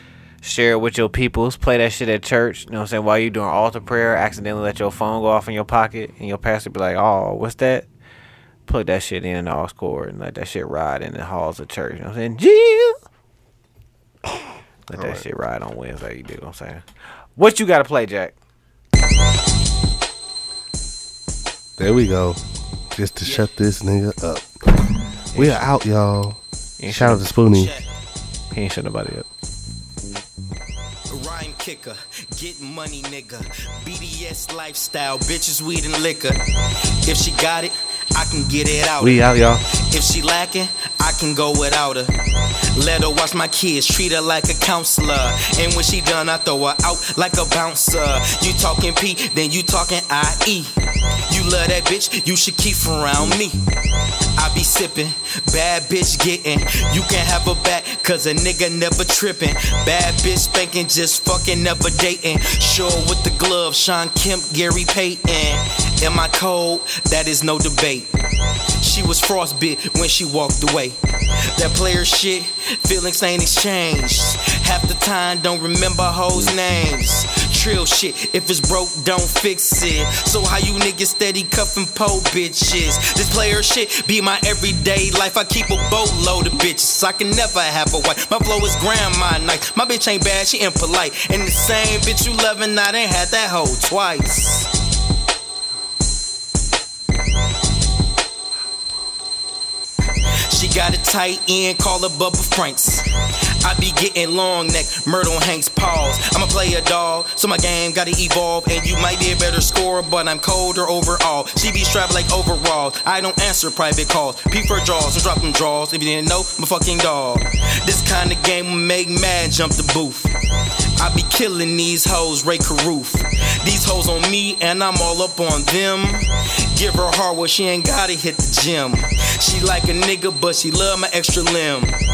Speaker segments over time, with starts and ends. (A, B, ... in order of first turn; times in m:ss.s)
0:00.4-0:07.9 A
0:08.7-0:13.0 A
0:14.9-0:16.8 A
0:14.9-0:15.2 B
0:17.4-0:18.3 A
0:21.8-0:22.4 B
0:23.0-0:24.7 B
0:25.3-0:25.7 A
0:25.3-0:27.7 B
0:26.8-0:27.3 A
0:27.5-0:27.9 C
0:28.5-0:29.3 A
0:31.1-0:36.4 C
0:37.0-0:42.1 C
0:39.0-0:39.6 B
0:42.7-0:50.7 C
0:51.3-0:53.6 C
0:54.4-1:08.2 C
1:08.8-1:11.0 C
1:11.5-1:34.7 C
1:40.5-1:43.1 C
1:43.6-2:00.3 C
2:01.0-2:12.0 C